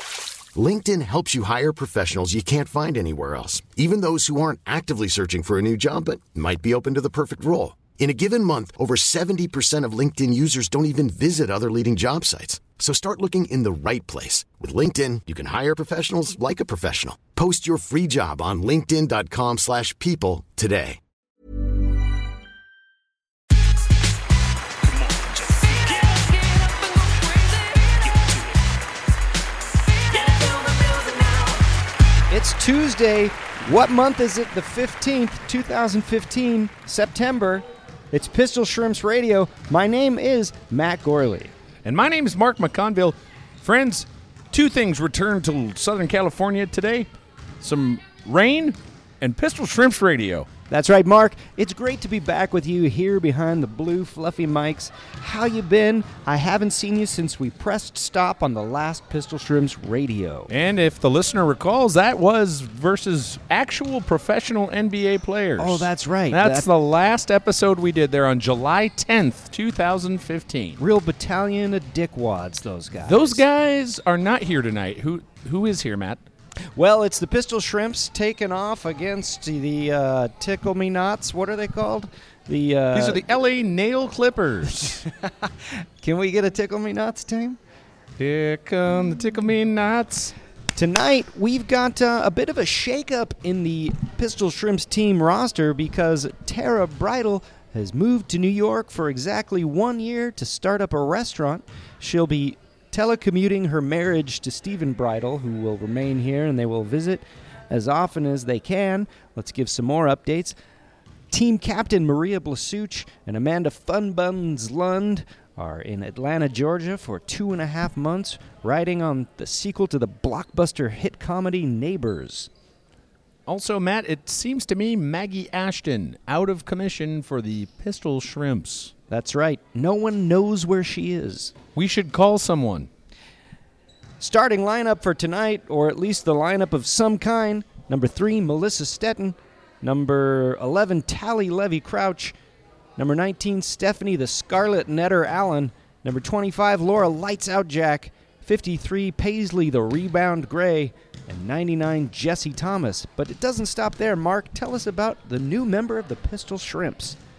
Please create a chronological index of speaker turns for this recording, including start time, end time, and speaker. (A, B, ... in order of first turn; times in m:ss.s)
0:00.5-0:21.0 A
0:25.0-0:27.6 B
0:28.1-0:28.5 B
0:30.4-0:31.4 B
0:32.3-0:41.5 C
0:41.8-0:50.5 B
0:50.7-1:00.5 C
1:00.5-1:10.8 B
1:05.6-1:06.7 C
1:10.8-1:13.4 C
1:13.0-1:16.2 B
1:16.7-1:23.2 C
1:22.9-1:25.0 B
1:24.8-1:27.6 C
1:28.2-1:30.3 B
1:30.8-1:50.6 C
1:51.3-2:02.5 C
2:03.5-2:08.9 B
2:09.1-2:11.5 C
2:11.8-2:12.9 B
2:14.2-2:22.4 C
2:23.0-2:37.2 C